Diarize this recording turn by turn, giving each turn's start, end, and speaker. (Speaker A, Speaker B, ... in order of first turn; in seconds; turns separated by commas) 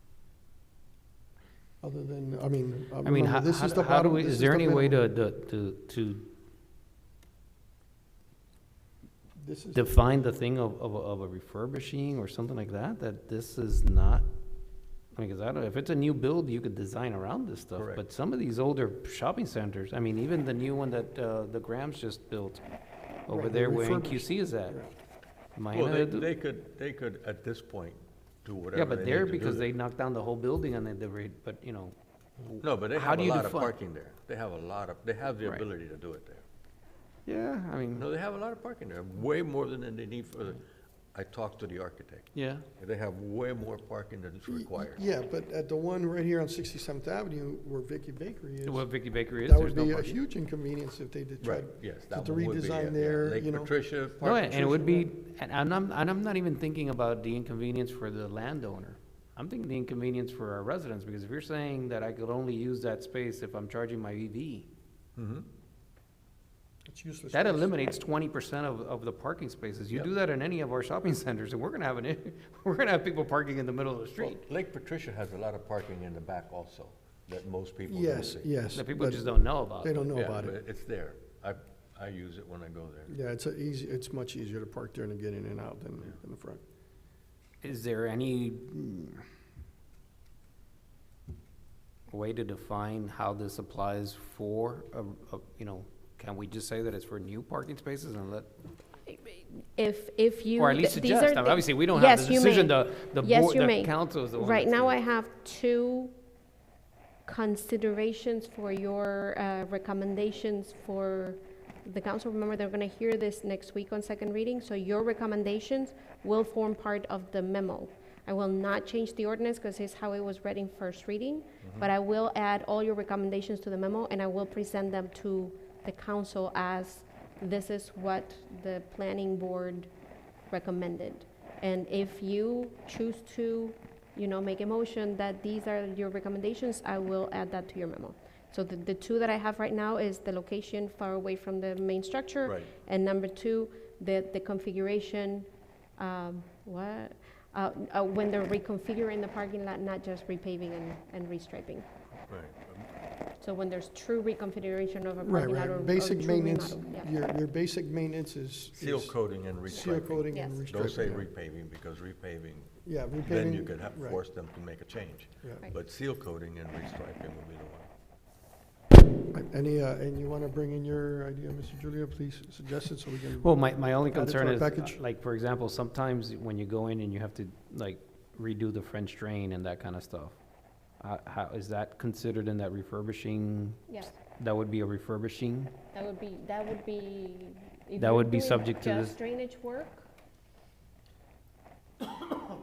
Speaker A: 1.8-5.0, Speaker B: 3.0-6.2, Speaker A: 9.4-10.1, Speaker B: 9.7-14.3, Speaker B: 15.2-22.6, Speaker C: 17.8-18.0, Speaker B: 23.3-24.8, Speaker A: 23.3-24.9, Speaker B: 25.6-26.3, Speaker C: 25.7-29.7, Speaker B: 28.7-31.9, Speaker B: 32.5-33.8, Speaker C: 32.6-36.4, Speaker B: 37.3-38.1, Speaker C: 38.0-40.6, Speaker C: 41.1-42.3, Speaker B: 42.3-42.6, Speaker C: 42.8-45.0, Speaker A: 44.5-48.9, Speaker B: 48.7-50.2, Speaker A: 49.4-53.7, Speaker C: 51.4-54.9, Speaker B: 54.2-64.7, Speaker A: 54.5-55.0, Speaker C: 65.2-65.5, Speaker A: 66.9-68.0, Speaker B: 67.3-74.4, Speaker C: 74.2-78.5, Speaker A: 77.9-79.3, Speaker B: 78.8-80.1, Speaker A: 79.8-80.6, Speaker C: 80.1-83.1, Speaker A: 83.1-86.6, Speaker B: 87.6-89.2, Speaker B: 92.1-98.5, Speaker D: 99.0-106.1, Speaker B: 100.6-105.0, Speaker D: 107.3-129.9, Speaker C: 121.6-121.9, Speaker D: 130.5-151.9, Speaker C: 142.4-142.7, Speaker C: 152.3-152.9, Speaker D: 153.4-157.1, Speaker A: 155.2-159.2, Speaker C: 158.7-167.9, Speaker A: 159.7-161.3, Speaker D: 160.3-160.6, Speaker A: 162.8-164.2, Speaker A: 169.3-173.5, Speaker B: 173.4-180.4, Speaker A: 174.1-175.0, Speaker B: 181.0-183.8, Speaker B: 184.4-185.7, Speaker D: 185.9-190.1, Speaker B: 188.0-189.2